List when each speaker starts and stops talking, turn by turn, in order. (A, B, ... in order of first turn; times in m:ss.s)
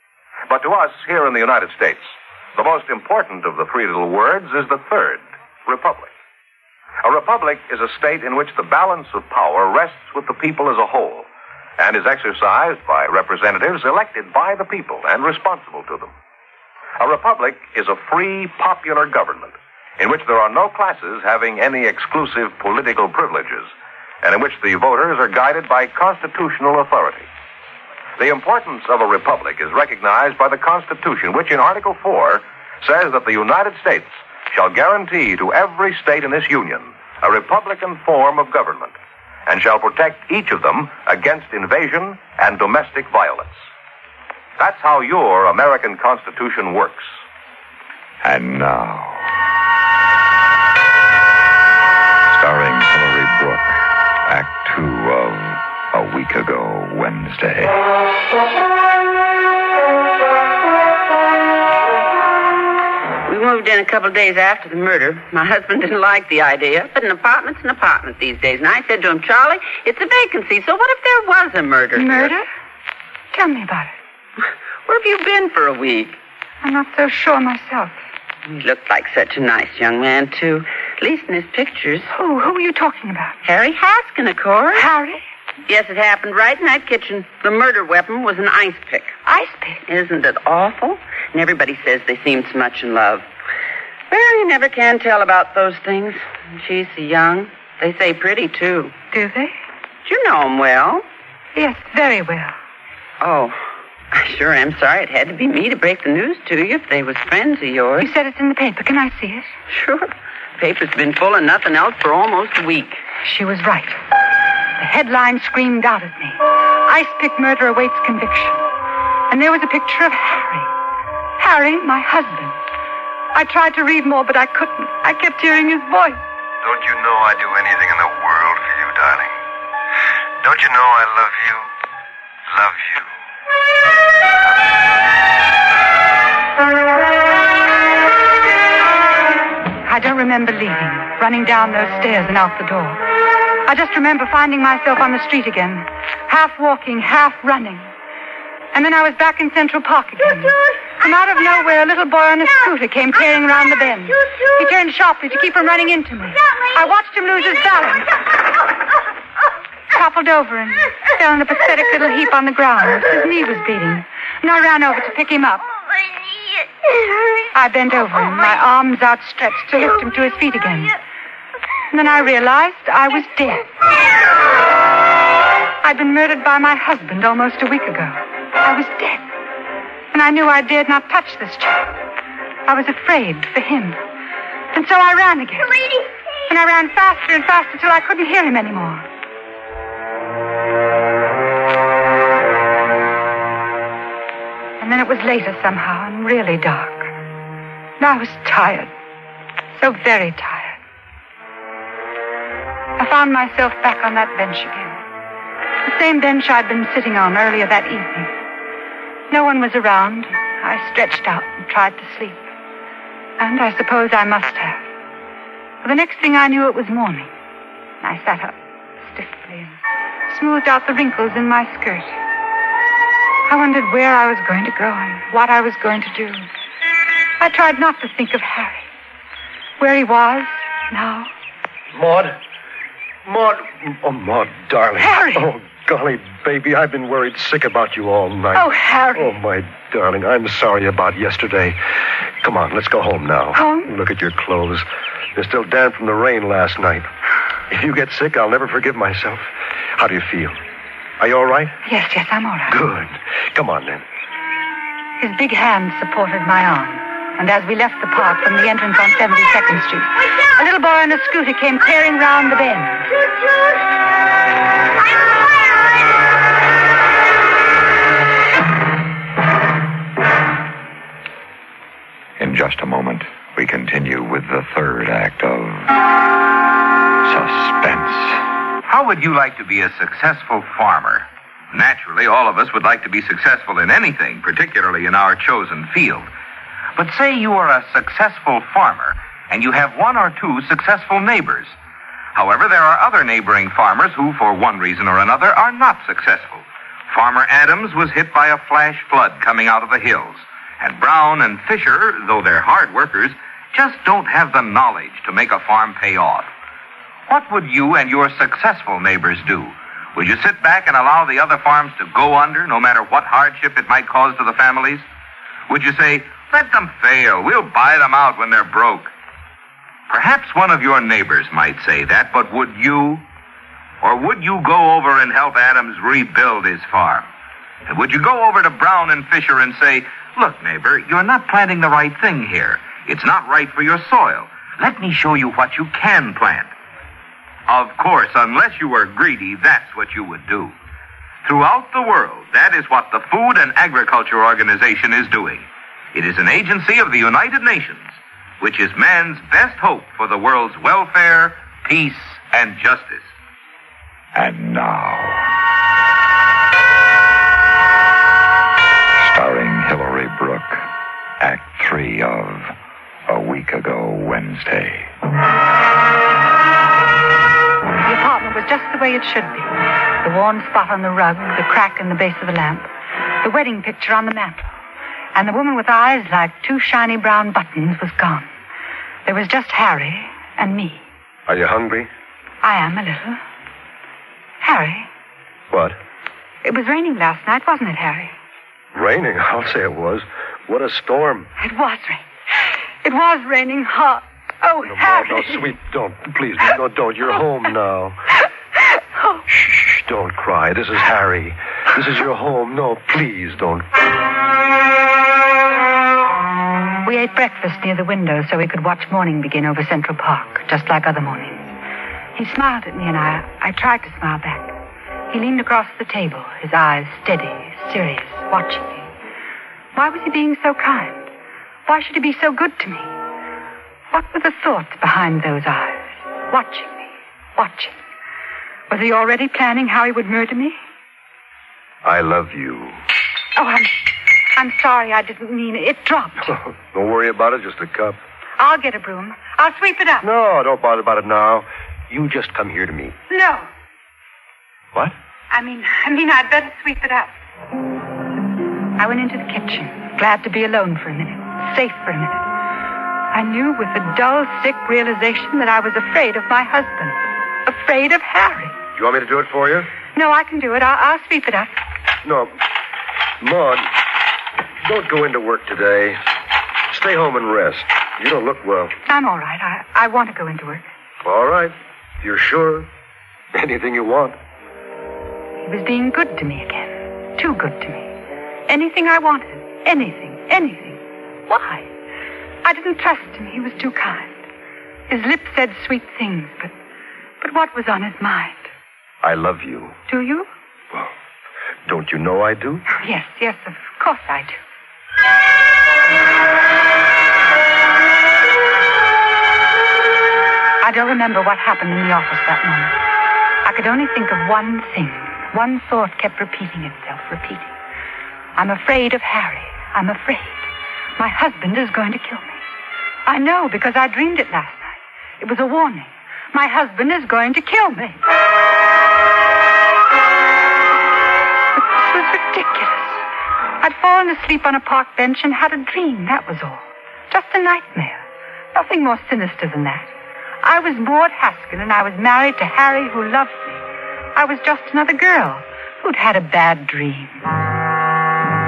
0:00.5-0:06.1 A
0:07.0-0:11.3 A
0:11.8-0:16.1 A
0:17.0-0:23.7 A
0:24.2-0:27.3 A
0:28.2-0:38.9 A
0:39.4-0:43.6 A
0:44.6-0:47.1 A
0:48.2-0:49.3 B
0:52.3-0:57.8 B
1:03.2-1:12.3 C
1:12.0-1:12.5 D
1:13.3-1:13.9 D
1:14.4-1:16.2 C
1:16.6-1:18.0 D
1:18.5-1:22.1 C
1:22.1-1:23.4 D
1:23.4-1:24.9 C
1:24.7-1:25.2 D
1:25.6-1:29.2 C
1:29.2-1:29.8 D
1:29.8-1:33.2 C
1:34.1-1:38.9 C
1:39.1-1:39.6 D
1:40.0-1:41.0 C
1:41.5-1:42.6 D
1:43.2-1:43.6 C
1:44.1-1:48.1 C
1:48.0-1:49.5 D
1:49.7-1:53.0 C
1:53.2-1:54.0 D
1:54.8-1:58.6 D
1:59.3-2:00.7 D
2:01.4-2:02.6 D
2:03.3-2:06.2 D
2:06.6-2:09.4 E
2:10.4-2:11.7 E
2:12.5-2:13.1 E
2:14.4-2:14.7 E
2:19.8-2:23.0 D
2:23.6-2:27.9 D
2:28.7-2:38.3 D
2:39.9-2:45.6 D
2:47.5-2:51.0 D
2:51.9-2:53.7 D
2:55.8-2:59.3 D
3:00.1-3:01.9 D
3:02.6-3:04.0 D
3:04.7-3:05.9 D
3:06.5-3:09.0 D
3:14.8-3:17.1 D
3:18.0-3:18.9 D
3:19.8-3:20.8 D
3:23.0-3:25.0 D
3:25.8-3:28.3 D
3:29.3-3:32.5 D
3:33.4-3:34.8 D
3:35.8-3:37.3 D
3:38.0-3:42.1 D
3:43.5-3:46.5 D
3:47.4-3:48.9 D
3:49.8-3:51.3 D
3:51.9-3:52.4 E
3:53.2-4:01.8 E
3:55.0-3:55.5 D
3:58.5-3:59.3 D
4:02.4-4:07.1 E
4:03.5-4:03.9 D
4:07.7-4:10.6 E
4:11.2-4:11.8 E
4:11.8-4:12.8 D
4:12.7-4:14.0 E
4:15.2-4:23.1 D
4:32.4-4:36.0 B
4:37.2-4:38.4 B
4:38.8-4:46.3 A
4:47.0-4:51.8 A
4:52.3-5:06.5 A
5:07.3-5:15.0 A
5:15.7-5:19.1 A
5:20.1-5:23.2 A
5:24.0-5:27.2 A
5:27.9-5:36.7 A
5:37.7-5:40.7 A
5:41.4-5:53.3 A
5:54.3-5:55.5 B
5:59.2-6:00.8 B
6:01.4-6:02.7 B
6:03.3-6:05.1 B
6:08.0-6:12.9 D
6:13.4-6:14.7 D
6:15.3-6:18.5 D
6:19.2-6:21.0 D
6:21.5-6:22.1 E
6:22.6-6:23.4 D
6:24.6-6:25.1 D
6:25.7-6:26.0 E
6:26.6-6:28.3 D
6:28.9-6:31.5 E
6:31.6-6:35.7 D
6:34.8-6:38.2 E
6:39.5-6:43.9 E
6:47.0-6:51.7 D
6:52.3-6:54.7 D
6:55.3-6:59.1 D
6:59.9-7:01.3 D
7:01.9-7:03.1 D
7:04.1-7:08.0 D
7:08.9-7:10.8 D
7:12.0-7:13.0 E
7:13.5-7:14.0 D
7:14.6-7:16.6 D
7:16.5-7:18.2 E
7:18.6-7:20.3 D
7:20.2-7:23.2 E
7:23.3-7:23.7 D
7:25.5-7:27.3 D
7:29.0-7:32.5 D
7:33.3-7:38.8 D
7:38.9-7:39.9 E
7:40.1-7:41.8 D
7:42.2-7:42.6 E
7:43.4-7:43.9 E
7:44.8-7:46.2 E
7:46.9-7:49.0 E
7:49.0-7:50.9 D
7:51.2-7:52.9 E
7:53.5-7:54.4 E
7:55.6-7:58.1 D
7:58.7-8:01.9 D
8:02.6-8:04.4 D
8:05.1-8:06.7 D
8:07.4-8:08.7 D
8:09.2-8:10.0 E
8:10.1-8:10.5 D
8:11.8-8:12.8 E
8:12.9-8:14.6 D
8:20.8-8:22.9 D
8:23.6-8:27.7 D
8:28.6-8:32.6 D
8:33.2-8:38.2 D
8:41.7-8:43.2 D
8:43.8-8:50.1 D
8:50.6-8:53.8 D
8:54.3-8:57.4 D